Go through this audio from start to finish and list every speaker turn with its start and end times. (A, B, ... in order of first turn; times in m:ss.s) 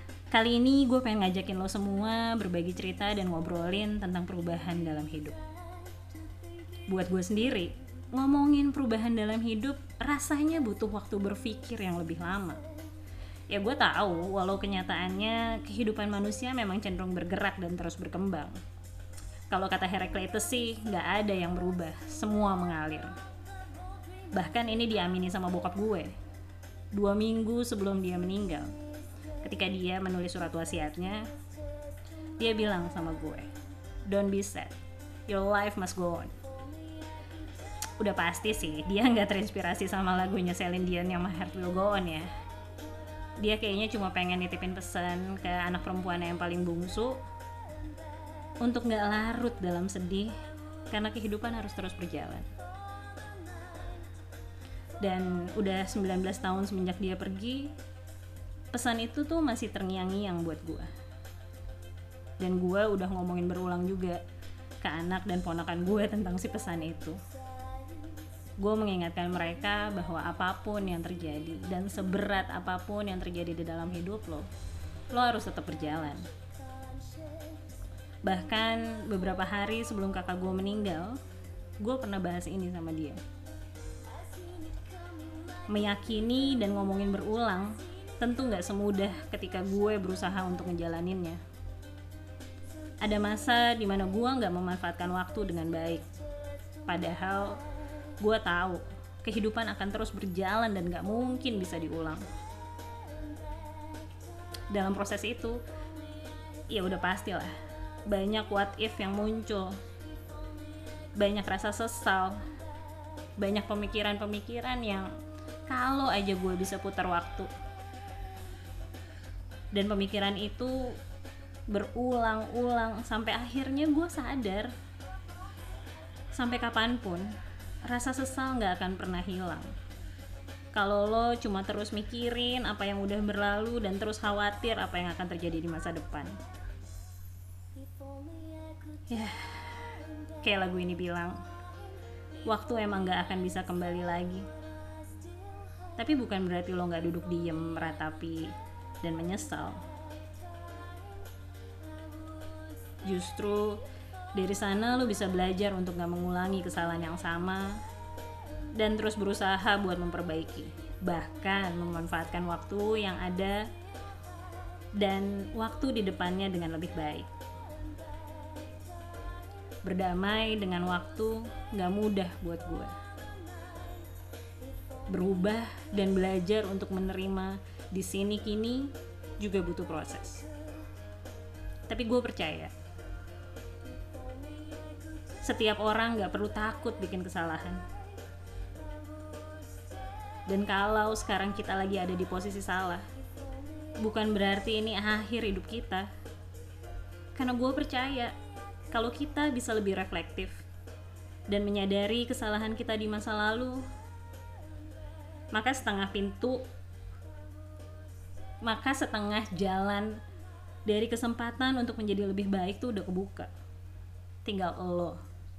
0:00.3-0:05.4 A
0:06.9-0:12.6 A
0:13.5-0:18.5 A
0:19.5-0:23.1 A
0:24.3-0:26.1 A
0:26.9-0:28.8 A
0:29.4-0:31.3 A
0:32.4-0:33.5 A
0:34.0-0:34.7 A
0:35.3-0:36.4 A
0:38.0-0:42.3 A
0:43.4-0:47.2 A
0:48.6-0:50.3 A
0:50.9-0:52.5 A
0:55.0-0:57.7 A
0:58.7-1:00.9 A
1:02.4-1:04.2 A
1:04.8-1:07.2 A
1:08.6-1:14.5 A
1:15.1-1:16.3 A
1:18.2-1:21.2 A
1:21.8-1:23.2 A
1:25.7-1:31.4 A
1:33.0-1:36.0 A
1:36.8-1:37.6 A
1:38.2-1:42.3 A
1:44.7-1:45.6 A
1:46.7-1:47.5 A
1:48.0-1:49.8 A
1:51.2-1:52.4 A
1:53.4-1:55.1 A
1:55.7-1:57.5 A
1:59.7-2:01.0 A
2:01.7-2:04.7 A
2:06.3-2:07.3 A
2:07.8-2:09.7 A
2:10.7-2:16.4 A
2:19.1-2:21.4 A
2:22.4-2:24.5 A
2:26.0-2:29.8 A
2:33.0-2:33.8 A
2:34.3-2:37.8 A
2:38.7-2:43.7 A
2:45.0-2:47.3 A
2:49.8-2:52.9 A
2:55.1-3:00.5 A
3:01.9-3:02.7 A
3:05.4-3:07.8 A
3:10.5-3:13.0 A
3:14.0-3:16.1 A
3:17.3-3:18.4 A
3:18.9-3:20.6 A
3:21.5-3:23.8 A
3:25.5-3:26.6 A
3:28.6-3:30.2 A
3:30.8-3:33.5 A
3:34.4-3:35.2 A